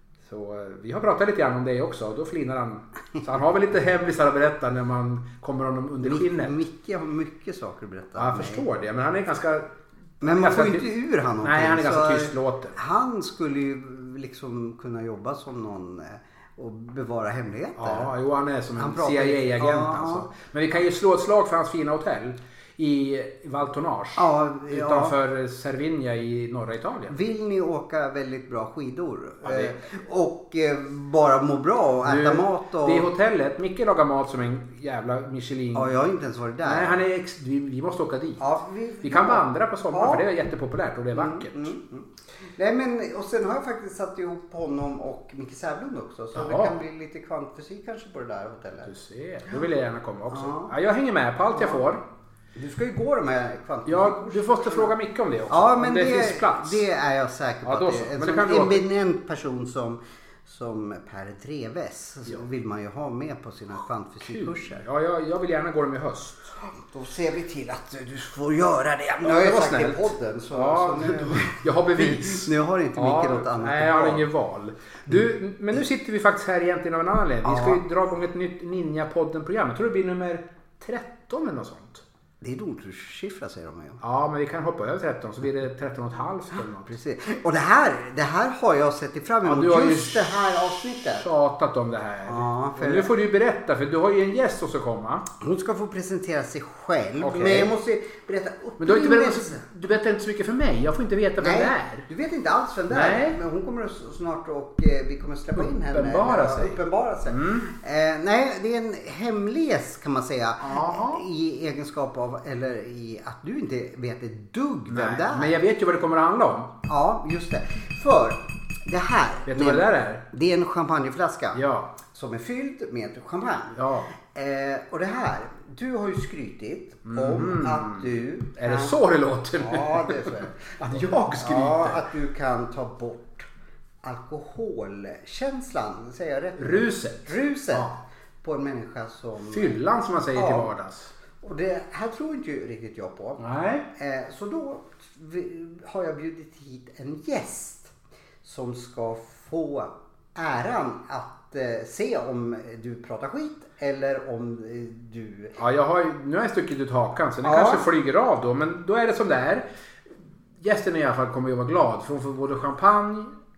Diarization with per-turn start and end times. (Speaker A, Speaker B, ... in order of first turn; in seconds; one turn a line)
Speaker A: 0.3-6.5
Speaker B: 6.0-8.7
Speaker A: 8.2-10.9
Speaker B: 10.2-18.1
Speaker A: 11.4-12.8
Speaker A: 17.8-27.2
Speaker B: 18.8-20.3
Speaker B: 24.2-25.2
Speaker B: 27.1-33.1
Speaker A: 29.4-29.8
Speaker A: 32.0-36.0
Speaker B: 35.7-37.0
Speaker A: 36.6-38.5
Speaker B: 38.4-40.3
Speaker A: 39.0-41.7
Speaker B: 41.1-48.9
Speaker A: 46.4-46.8
Speaker A: 48.9-52.0
Speaker B: 50.3-50.7
Speaker B: 51.5-51.9
Speaker B: 52.6-54.9
Speaker A: 53.9-56.8
Speaker B: 55.5-64.8
Speaker A: 57.6-58.8
Speaker A: 64.2-66.5
Speaker B: 66.6-74.3
Speaker A: 69.2-82.0
Speaker B: 77.4-77.8
Speaker B: 82.4-84.0
Speaker A: 84.0-87.0
Speaker B: 86.9-91.3
Speaker A: 89.4-95.3
Speaker B: 92.3-93.1
Speaker B: 95.4-99.6
Speaker A: 97.2-97.7
Speaker A: 98.8-102.1
Speaker B: 101.4-115.6
Speaker A: 102.9-103.4
Speaker A: 105.6-107.7
Speaker A: 110.6-111.2
Speaker A: 114.9-116.7
Speaker B: 116.9-128.9
Speaker A: 119.5-120.2
Speaker A: 121.5-122.0
Speaker A: 123.7-124.1
Speaker A: 127.0-132.0
Speaker B: 129.6-130.6
Speaker B: 131.3-133.5
Speaker B: 134.0-139.8
Speaker A: 136.6-137.9
Speaker A: 139.5-141.1
Speaker B: 140.3-140.7
Speaker B: 141.4-143.4
Speaker A: 143.4-143.9
Speaker B: 143.9-155.6
Speaker A: 155.6-159.7
Speaker B: 157.4-157.9
Speaker A: 160.6-163.3